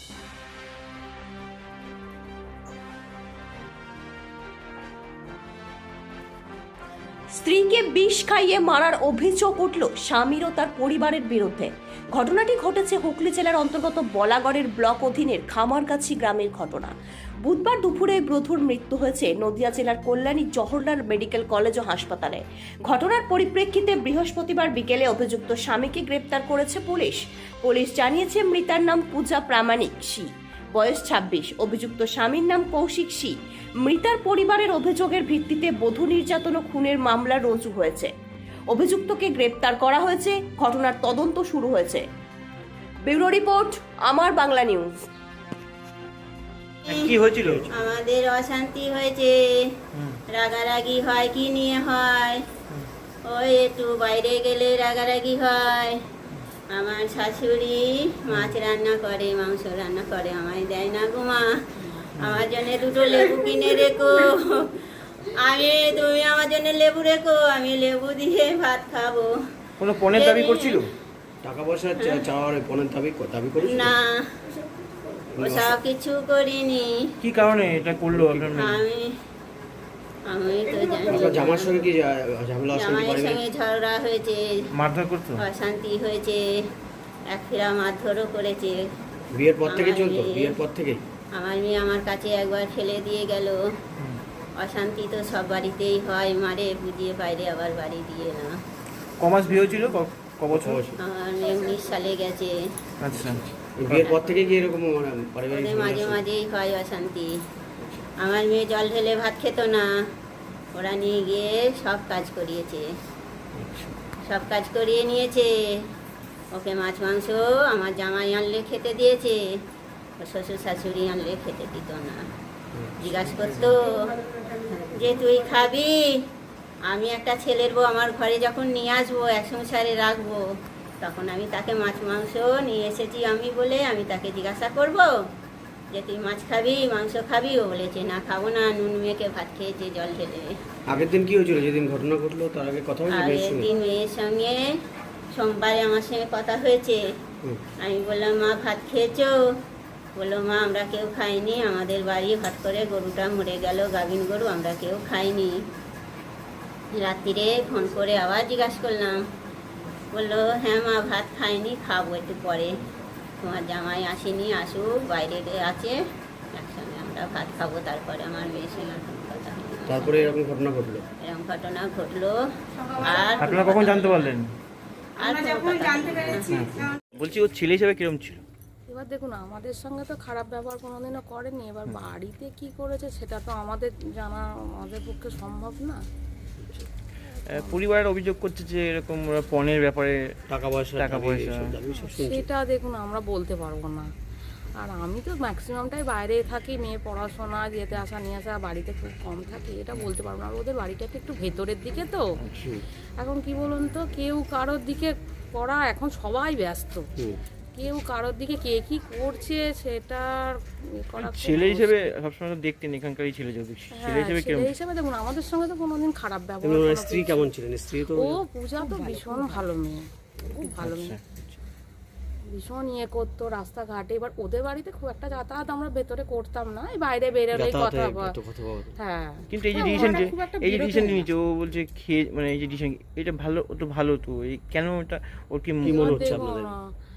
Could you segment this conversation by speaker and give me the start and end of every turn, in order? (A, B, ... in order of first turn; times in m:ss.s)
0:07.4-0:16.9 A
0:17.4-0:30.2 A
0:30.8-0:33.3 A
0:33.9-0:38.1 A
0:38.7-0:42.0 A
0:43.1-0:44.9 A
0:46.9-0:47.7 B
0:47.7-0:49.4 C
0:50.3-0:52.4 C
0:53.3-0:56.0 C
0:56.7-1:04.8 C
0:58.3-0:58.6 B
1:02.2-1:02.4 B
1:05.4-1:09.3 C
1:09.8-1:10.9 B
1:10.1-1:10.8 C
1:11.4-1:14.0 D
1:13.6-1:14.3 C
1:15.3-1:15.8 D
1:15.4-1:17.0 C
1:17.2-1:18.8 B
1:18.1-1:18.5 D
1:18.5-1:19.1 C
1:20.3-1:21.9 C
1:21.1-1:23.4 D
1:22.8-1:24.4 C
1:24.8-1:25.4 B
1:25.4-1:26.4 C
1:27.3-1:28.8 C
1:29.3-1:31.0 D
1:29.7-1:30.5 C
1:31.3-1:33.6 C
1:34.6-1:38.5 C
1:39.2-1:40.8 B
1:40.5-1:41.0 D
1:41.0-1:42.5 C
1:43.0-1:44.1 B
1:43.1-1:46.2 D
1:45.5-1:47.3 C
1:48.2-1:49.8 C
1:50.7-1:52.9 C
1:53.6-1:53.9 D
1:54.2-1:55.5 C
1:56.5-1:59.4 C
2:00.2-2:02.2 C
2:02.7-2:03.7 D
2:03.0-2:06.2 C
2:06.9-2:10.4 C
2:11.0-2:15.1 C
2:15.9-2:20.5 C
2:20.9-2:23.7 D
2:23.1-2:24.6 C
2:25.4-2:27.0 C
2:27.8-2:29.3 C
2:30.2-2:35.6 C
2:37.0-2:39.2 C
2:40.1-2:42.7 C
2:43.4-2:46.0 C
2:46.5-2:50.3 C
2:49.8-2:51.0 D
2:51.2-2:52.4 C
2:53.0-2:54.1 C
2:53.4-2:54.5 B
2:55.2-2:56.6 C
2:56.5-2:58.4 B
2:58.9-3:06.0 E
3:06.6-3:06.9 D
3:07.5-3:10.2 B
3:10.5-3:12.5 D
3:11.0-3:11.8 B
3:12.0-3:14.1 E
3:14.8-3:22.2 E
3:23.2-3:27.0 E
3:27.7-3:32.1 E
3:31.2-3:34.7 B
3:33.9-3:37.5 E
3:36.6-3:38.4 D
3:38.1-3:41.2 E
3:40.8-3:41.2 B
3:42.5-3:48.3 E
3:47.5-3:48.9 D
3:49.0-3:49.5 E
3:49.5-3:56.3 B
3:55.8-3:56.7 D
3:55.8-3:56.8 E